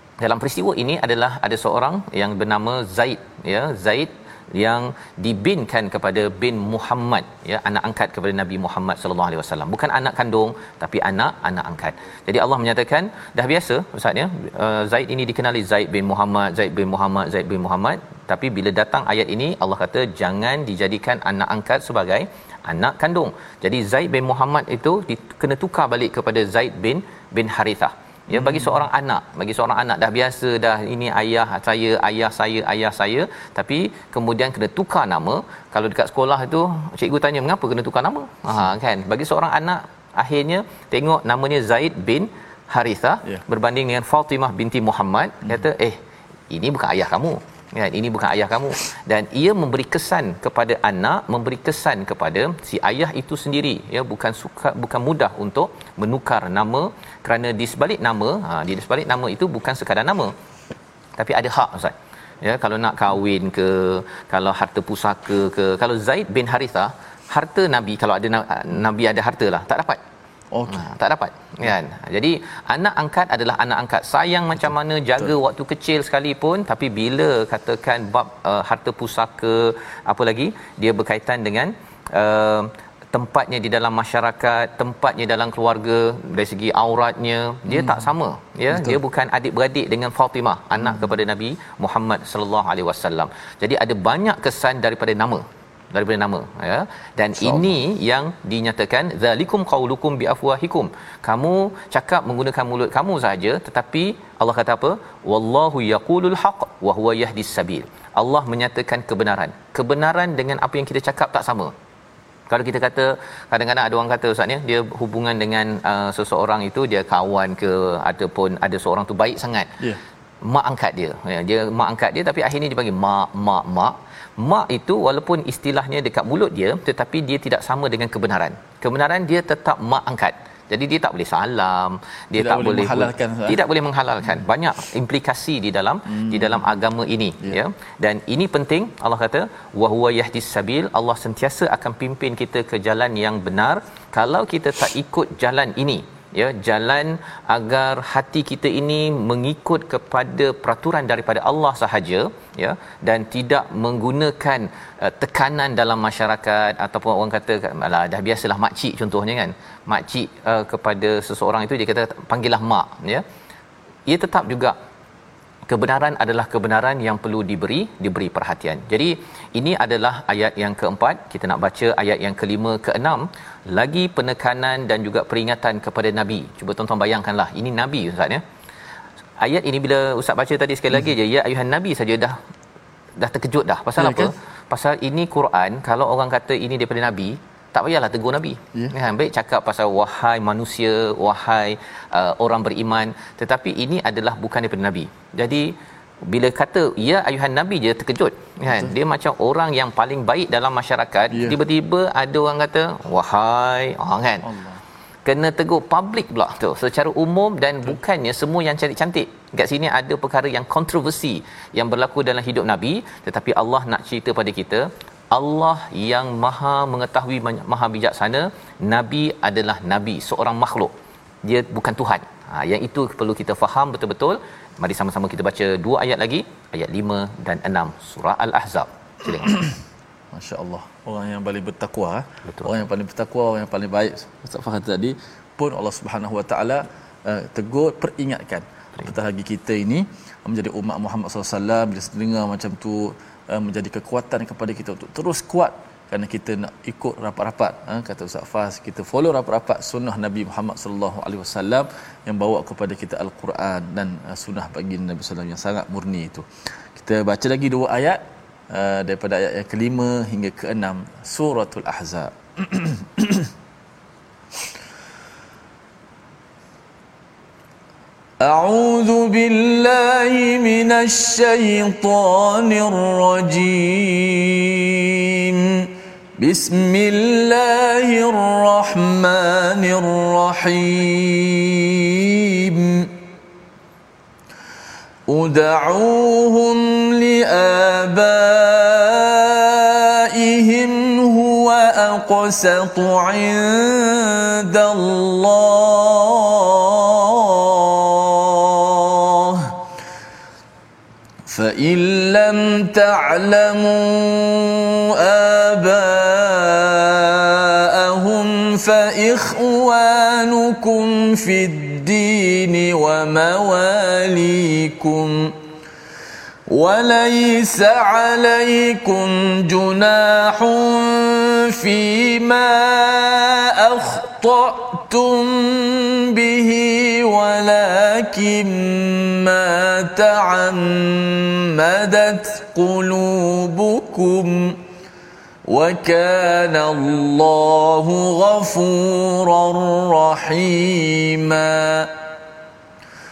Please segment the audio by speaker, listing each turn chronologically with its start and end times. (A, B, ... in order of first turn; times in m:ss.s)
0:00.2-0:46.0 A
0:28.3-0:28.7 B
0:46.5-1:00.3 A
1:01.2-1:10.0 A
1:10.5-1:10.8 B
1:10.7-1:51.7 A
1:27.7-1:28.0 B
1:28.7-1:29.0 B
1:52.5-1:59.8 A
2:00.4-2:43.2 A
2:12.4-2:13.6 B
2:44.1-2:44.8 A
2:45.7-2:58.4 A
2:59.4-3:02.4 A
3:03.2-3:15.7 A
3:04.0-3:04.3 B
3:16.2-3:24.5 A
3:21.3-3:21.6 B
3:24.4-3:24.8 B
3:25.2-3:40.9 A
3:41.4-3:49.6 A
3:50.3-4:23.5 B
4:28.4-4:43.2 B
4:45.3-4:59.8 B
5:01.4-5:15.5 B
5:16.7-5:34.8 B
5:35.7-5:42.1 B